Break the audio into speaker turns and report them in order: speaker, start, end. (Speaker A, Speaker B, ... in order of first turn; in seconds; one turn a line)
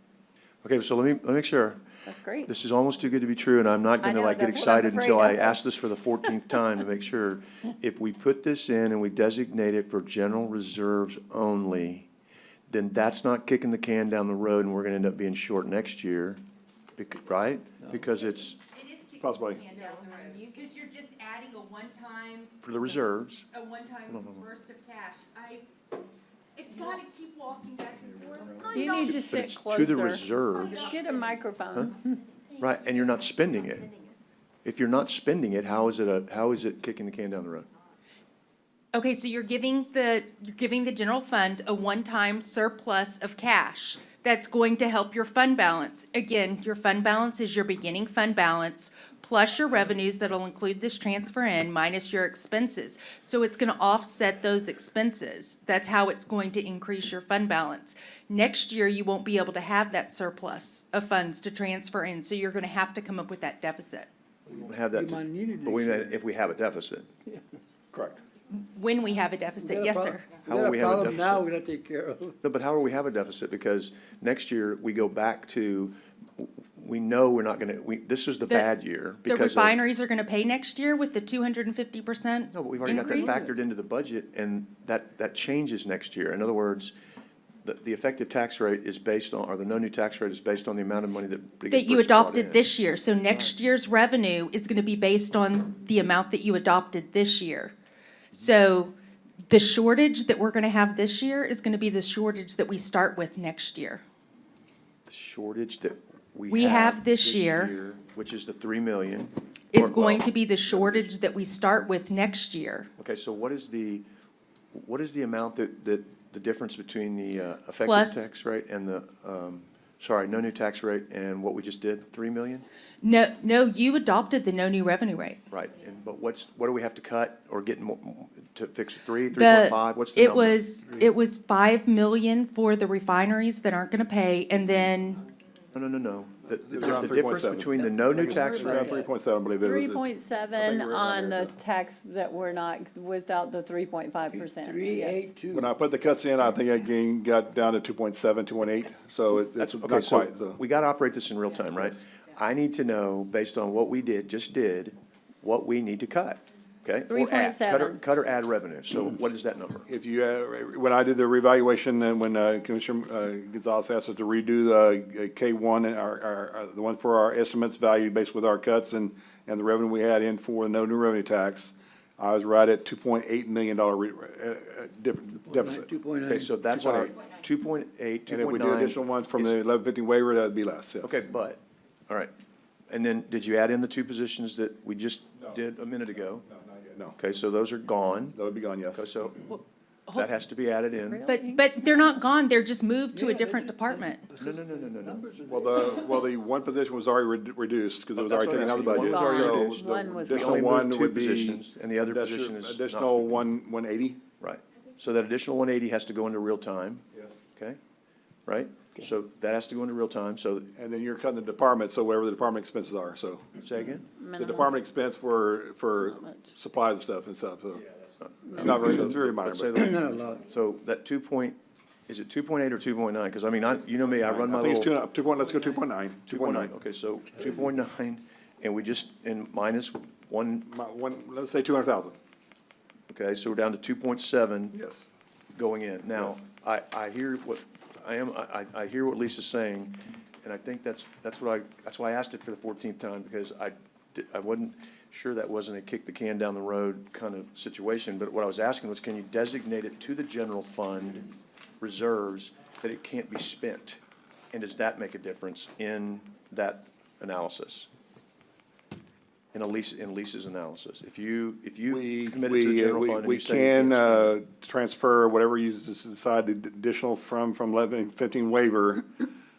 Speaker A: 0.6-12.1
Speaker B: 2.1-2.5
Speaker B: 4.0-5.7
Speaker A: 12.7-16.4
Speaker A: 17.0-18.6
Speaker C: 18.7-22.6
Speaker D: 19.2-19.6
Speaker A: 22.6-23.4
Speaker C: 23.5-25.7
Speaker A: 24.1-24.4
Speaker C: 26.6-29.5
Speaker B: 28.7-32.2
Speaker A: 29.2-30.9
Speaker C: 30.6-31.2
Speaker A: 32.6-33.9
Speaker A: 34.6-37.7
Speaker C: 38.9-64.1
Speaker E: 64.5-66.2
Speaker A: 64.6-67.1
Speaker D: 67.9-68.2
Speaker C: 68.5-70.3
Speaker E: 69.6-72.4
Speaker A: 70.4-71.5
Speaker A: 72.4-79.8
Speaker C: 79.3-83.5
Speaker A: 82.5-86.9
Speaker A: 87.6-92.6
Speaker C: 91.7-97.7
Speaker A: 93.3-93.5
Speaker C: 98.3-98.9
Speaker C: 99.5-104.0
Speaker A: 105.1-111.1
Speaker C: 106.5-107.7
Speaker C: 109.7-112.9
Speaker A: 113.0-114.0
Speaker A: 114.7-122.7
Speaker C: 117.8-118.3
Speaker C: 123.0-125.4
Speaker A: 125.5-130.6
Speaker C: 129.3-135.2
Speaker A: 135.7-139.0
Speaker D: 136.7-141.5
Speaker E: 137.8-139.1
Speaker B: 139.6-145.3
Speaker E: 144.3-145.7
Speaker D: 145.5-150.6
Speaker A: 149.6-159.9
Speaker B: 157.1-158.0
Speaker D: 159.9-175.9
Speaker E: 175.5-177.2
Speaker A: 176.3-179.6
Speaker D: 178.3-181.2
Speaker A: 181.0-182.3
Speaker A: 182.9-186.5
Speaker D: 186.5-187.2
Speaker A: 187.2-188.4
Speaker D: 188.3-189.1
Speaker A: 188.9-189.6
Speaker A: 190.1-191.3
Speaker B: 191.0-191.7
Speaker C: 191.2-194.2
Speaker E: 193.1-196.3
Speaker A: 194.4-195.3
Speaker D: 195.5-204.2
Speaker A: 198.2-203.3
Speaker B: 198.9-200.6
Speaker A: 204.4-207.0
Speaker A: 208.5-210.7
Speaker D: 210.8-213.5
Speaker A: 213.6-214.1
Speaker B: 214.2-214.7
Speaker D: 214.4-217.8
Speaker A: 218.2-224.9
Speaker B: 218.5-218.8
Speaker D: 218.6-219.8
Speaker E: 219.8-220.4
Speaker D: 224.2-226.7
Speaker A: 226.3-230.7
Speaker D: 230.7-232.2
Speaker A: 233.1-234.8
Speaker D: 234.7-235.1
Speaker A: 235.6-254.0
Speaker D: 236.2-236.4
Speaker A: 254.5-257.9
Speaker A: 259.5-264.3
Speaker D: 261.9-269.1